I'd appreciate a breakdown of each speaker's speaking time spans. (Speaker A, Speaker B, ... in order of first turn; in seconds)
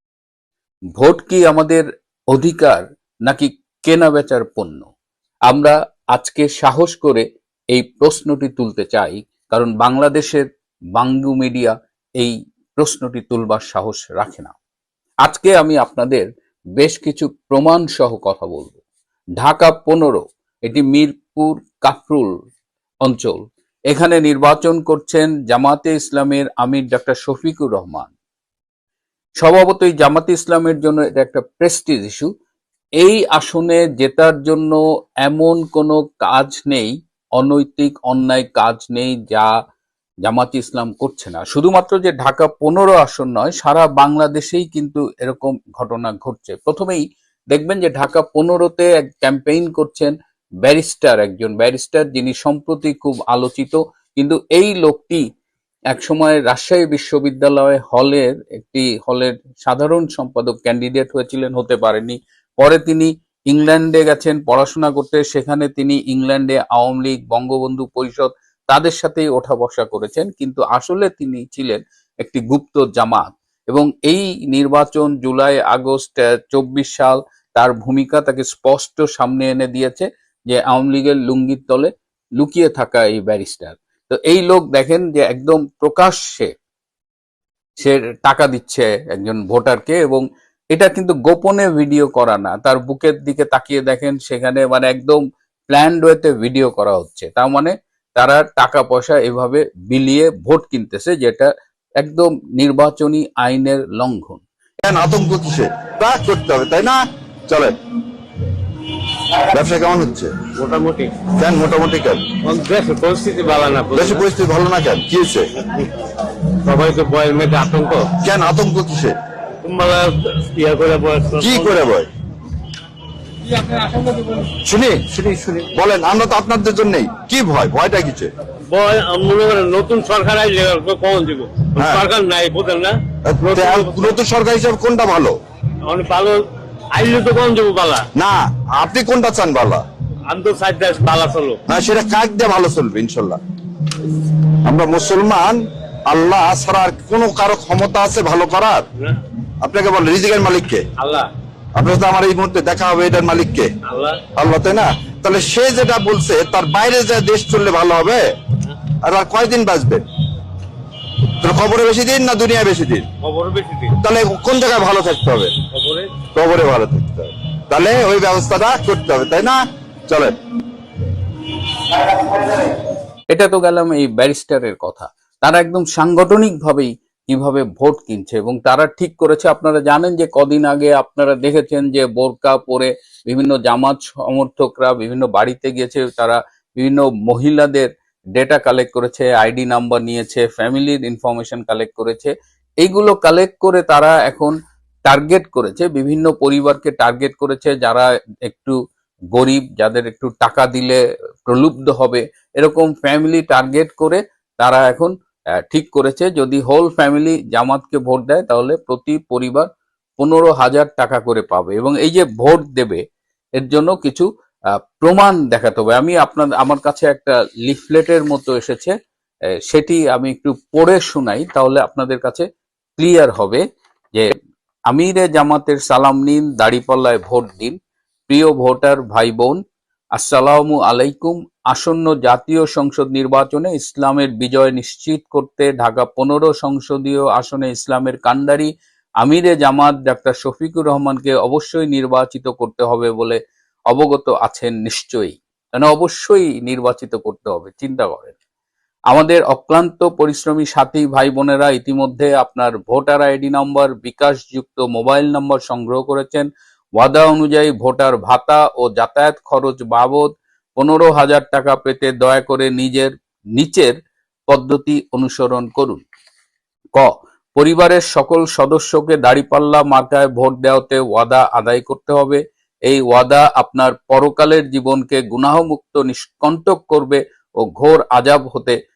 Speaker A: 1.0-4.9, 5.5-14.5, 15.2-18.8, 19.4-22.3, 23.0-28.1, 29.4-32.3, 33.0-39.5, 40.2-55.2, 55.9-86.5, 87.8-104.4, 173.3-198.8, 199.3-205.1, 205.7-209.7, 210.2-213.0, 213.6-214.2, 215.0-218.9, 219.7-222.4, 223.0-223.6, 224.9-227.8, 228.3-229.6, 230.2-238.7, 239.2-243.4, 243.9-248.3, 249.1-263.9, 264.5-266.0, 266.9-278.8
Speaker B: 104.8-107.7, 109.3-110.3, 111.3-112.3, 113.9-115.5, 118.2-119.2, 121.4-122.1, 124.5-128.3, 131.8-132.0, 133.2-135.3, 138.1-139.8, 141.7-143.4, 144.6-148.8, 149.6-150.8, 151.7-153.7, 154.3-158.3, 159.0-160.0, 161.4-163.1, 163.9-165.5, 166.3-170.3
Speaker C: 110.6-111.2, 112.4-114.2, 115.7-116.0, 116.6-118.1, 119.6-121.9, 123.5-124.5, 128.7-134.2, 135.8-138.1, 140.3-141.6, 151.0-151.3, 153.8-154.2, 163.2-163.9, 165.7-166.1